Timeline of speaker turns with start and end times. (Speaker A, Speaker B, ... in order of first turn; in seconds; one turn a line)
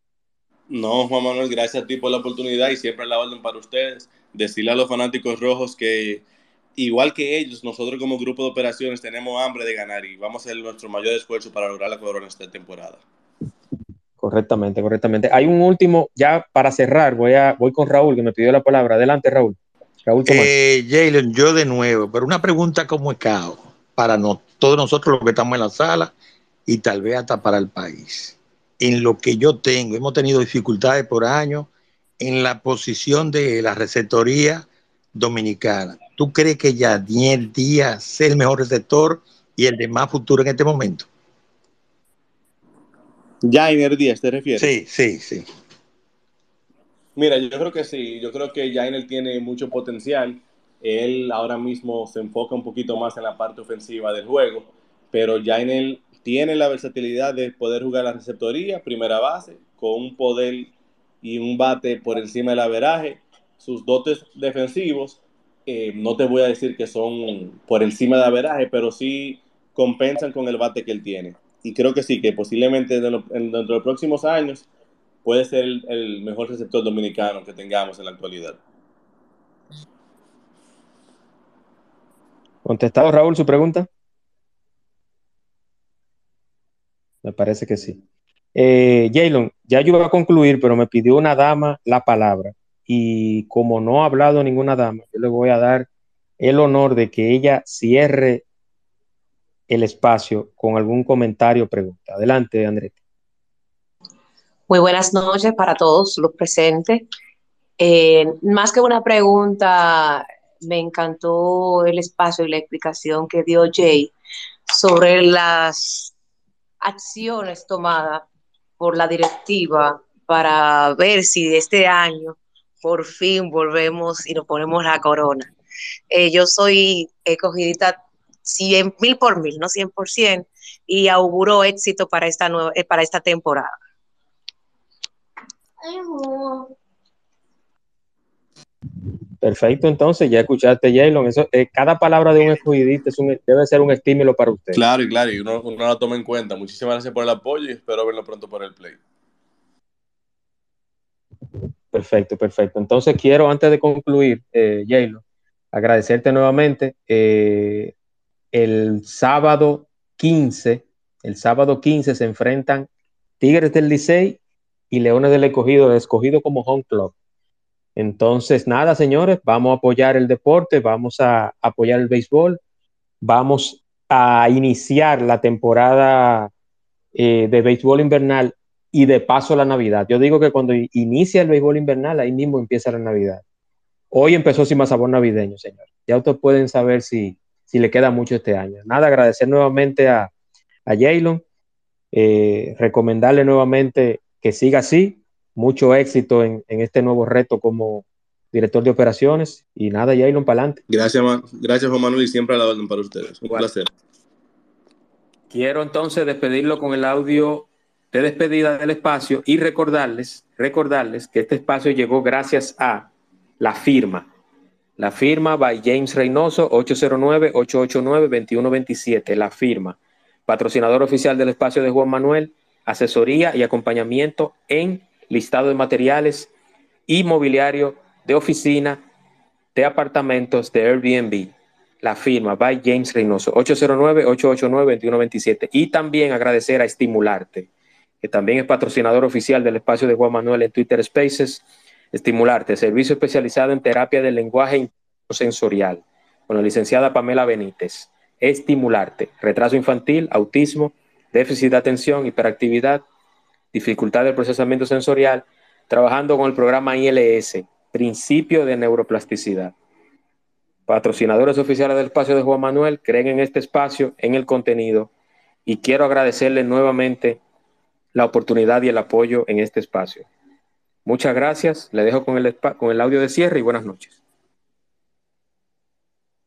Speaker A: 0.7-6.2
Speaker A: 6.8-13.0
Speaker B: 14.2-20.5
Speaker C: 20.2-26.1
Speaker C: 26.6-31.7
Speaker C: 32.2-41.1
Speaker A: 43.4-44.7
Speaker C: 44.6-45.5
Speaker A: 47.1-74.7
Speaker A: 75.2-78.6
Speaker B: 82.6-83.9
Speaker B: 87.2-88.0
Speaker B: 88.5-95.9
Speaker B: 96.4-98.4
Speaker B: 99.7-103.0
Speaker D: 104.7-107.0
Speaker D: 107.8-114.1
Speaker D: 114.7-116.1
Speaker D: 116.8-118.2
Speaker D: 118.8-125.5
Speaker D: 126.1-133.7
Speaker D: 135.8-136.7
Speaker B: 139.4-144.8
Speaker A: 144.7-149.0
Speaker B: 151.9-157.9
Speaker B: 158.5-162.9
Speaker B: 163.4-164.4
Speaker B: 164.9-167.1
Speaker B: 167.9-172.6
Speaker B: 173.2-176.5
Speaker B: 177.1-183.4
Speaker B: 184.1-190.3
Speaker B: 190.9-191.4
Speaker B: 192.1-200.8
Speaker A: 200.9-203.9
Speaker B: 205.5-214.3
Speaker B: 215.0-226.5
Speaker B: 227.1-229.0
Speaker B: 229.7-237.7
Speaker B: 238.2-253.0
Speaker B: 253.7-259.7
Speaker B: 260.9-265.1
Speaker B: 265.6-267.4
Speaker B: 268.1-270.2
Speaker B: 271.0-274.2